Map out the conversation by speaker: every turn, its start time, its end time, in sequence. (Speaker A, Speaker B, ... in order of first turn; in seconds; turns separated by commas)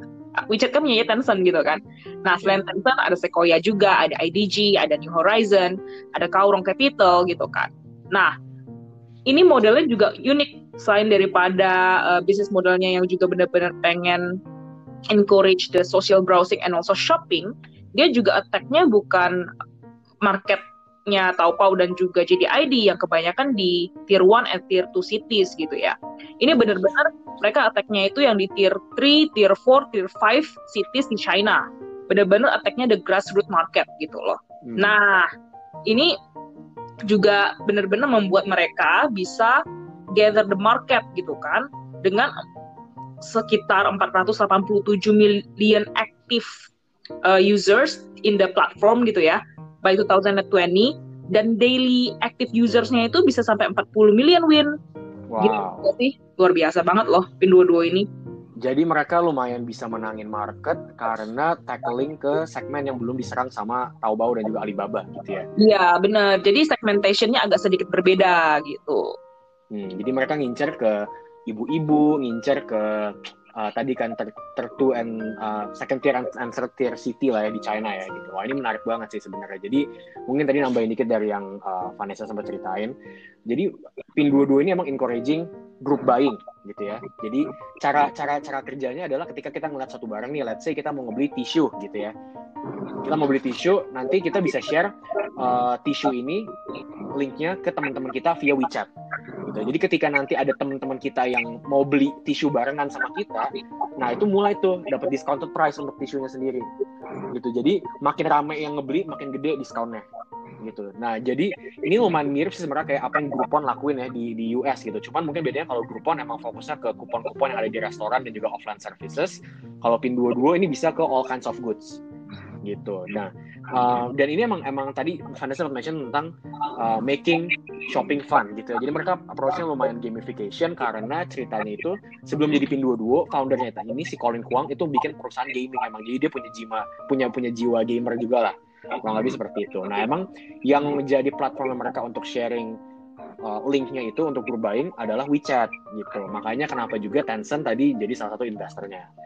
Speaker A: 0.4-8.3, Speaker A: 9.3-14.4, Speaker A: 15.1-19.4, Speaker A: 20.2-35.3, Speaker B: 34.6-35.0, Speaker A: 35.9-36.1, Speaker A: 37.0-39.6, Speaker A: 40.1-42.3, Speaker A: 43.2-46.7, Speaker A: 47.2-54.7, Speaker B: 55.3-55.8, Speaker A: 55.4-58.1, Speaker B: 58.6-65.4, Speaker A: 65.6-69.0, Speaker B: 69.7-82.9, Speaker B: 83.5-92.1, Speaker B: 93.0-96.5, Speaker B: 97.1-98.9, Speaker B: 99.5-106.7, Speaker B: 107.3-110.0, Speaker B: 110.6-122.0, Speaker B: 122.6-142.7, Speaker B: 143.4-149.1